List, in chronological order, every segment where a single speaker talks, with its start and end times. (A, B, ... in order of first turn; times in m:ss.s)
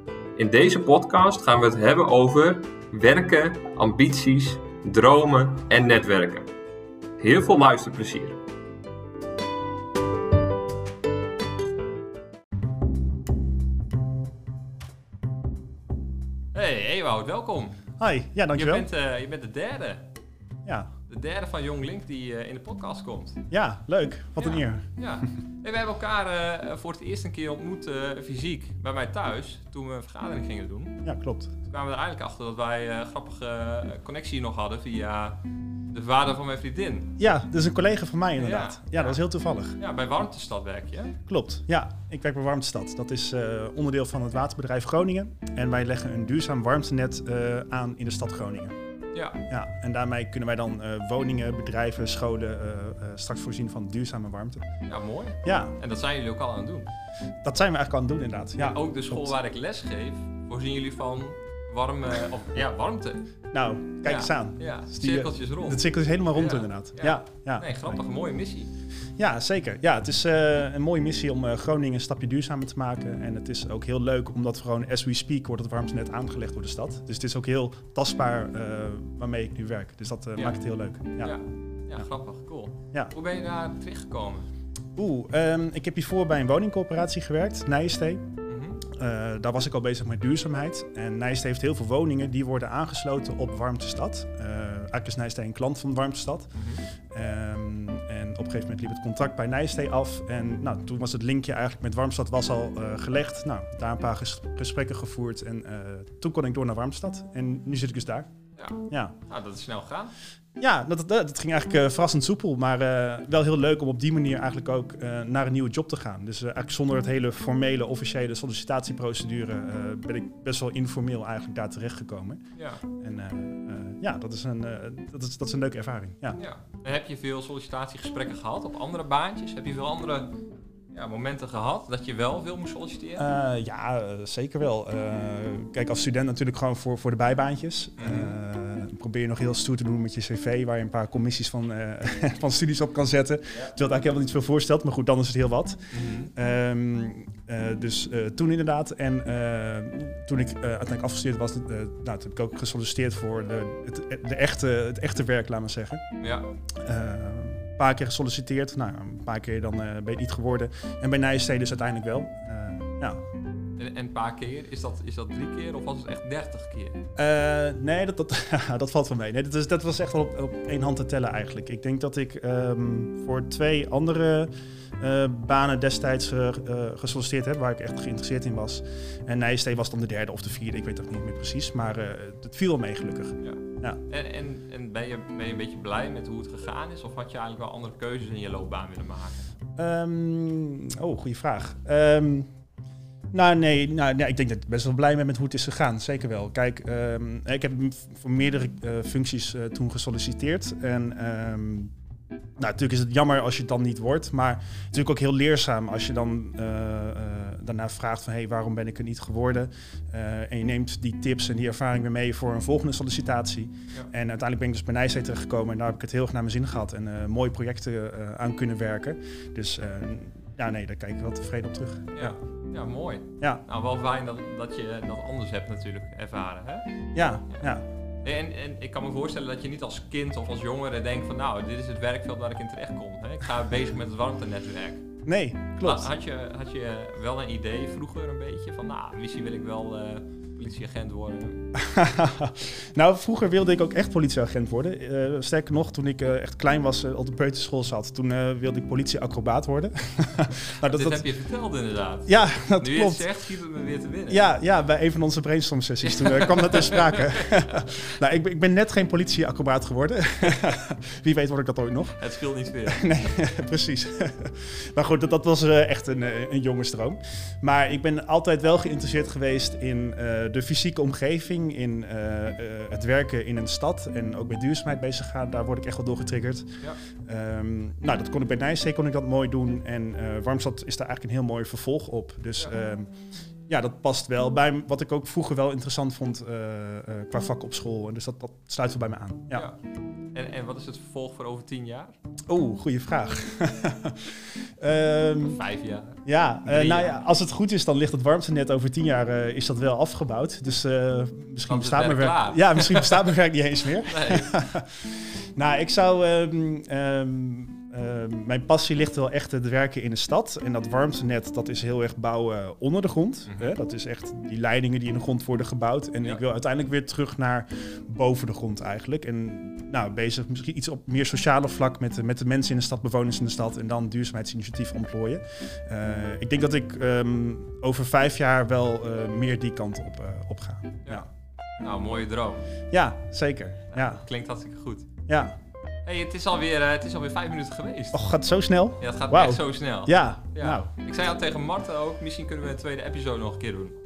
0:00.4-0:06.5 A
0:07.2-0:08.4 A
0:16.5-0:17.8 A
0:18.0-0:18.9 B
0:18.5-0:20.0 A
0:21.1-0:23.4 A
0:23.5-0:24.8 B
0:24.4-0:31.0 A
0:31.0-0:31.5 B
0:31.7-0:35.4 A
0:35.9-0:37.1 A
0:37.2-0:39.8 B
0:38.4-0:39.2 A
0:39.8-0:41.2 A
0:41.3-0:48.7 B
0:49.1-0:49.4 A
0:49.5-0:54.6 B
0:54.9-0:56.9 A
0:55.4-0:55.8 B
0:57.4-0:59.3 B
0:58.6-1:03.3 A
1:03.5-1:07.8 B
1:04.0-1:08.7 A
1:09.2-1:21.3 B
1:21.2-1:24.5 A
1:25.0-1:28.2 B
1:28.5-1:28.8 A
1:28.9-1:36.5 B
1:36.5-1:36.8 A
1:37.1-1:48.3 B
1:48.6-1:50.1 A
1:48.9-1:49.1 B
1:50.6-2:02.4 B
2:02.5-2:02.8 A
2:03.0-2:06.4 B
2:06.4-2:10.4 A
2:10.9-2:13.3 A
2:13.2-2:36.0 B
2:18.0-2:18.4 A
2:25.9-2:26.3 A
2:36.2-2:36.5 A
2:36.8-2:43.2 B
2:43.8-2:47.0 A
2:47.2-3:04.0 B
3:03.4-3:09.5 A
3:09.8-3:12.5 B
3:13.3-3:21.9 B
3:22.6-3:42.4 B
3:42.1-3:46.8 A
3:47.1-3:47.8 B
3:48.2-3:55.0 A
3:55.2-3:56.1 B
3:55.8-4:01.6 A
4:01.7-4:11.2 B
4:10.8-4:14.4 A
4:12.3-4:13.3 B
4:14.3-4:22.2 B
4:16.0-4:17.7 A
4:22.2-4:23.0 A
4:22.9-4:43.1 B
4:43.7-4:49.7 B
4:49.5-4:49.8 A
4:50.3-4:52.1 A
4:52.5-4:55.6 B
4:55.4-4:57.2 A
4:56.2-5:31.3 B
5:01.7-5:03.3 A
5:04.0-5:04.5 A
5:13.5-5:13.8 A
5:31.8-5:32.7 A
5:32.9-5:34.2 B
5:33.9-5:35.1 A
5:35.3-5:35.5 B
5:36.0-5:38.3 A
5:38.1-5:40.9 B
5:39.0-5:44.0 A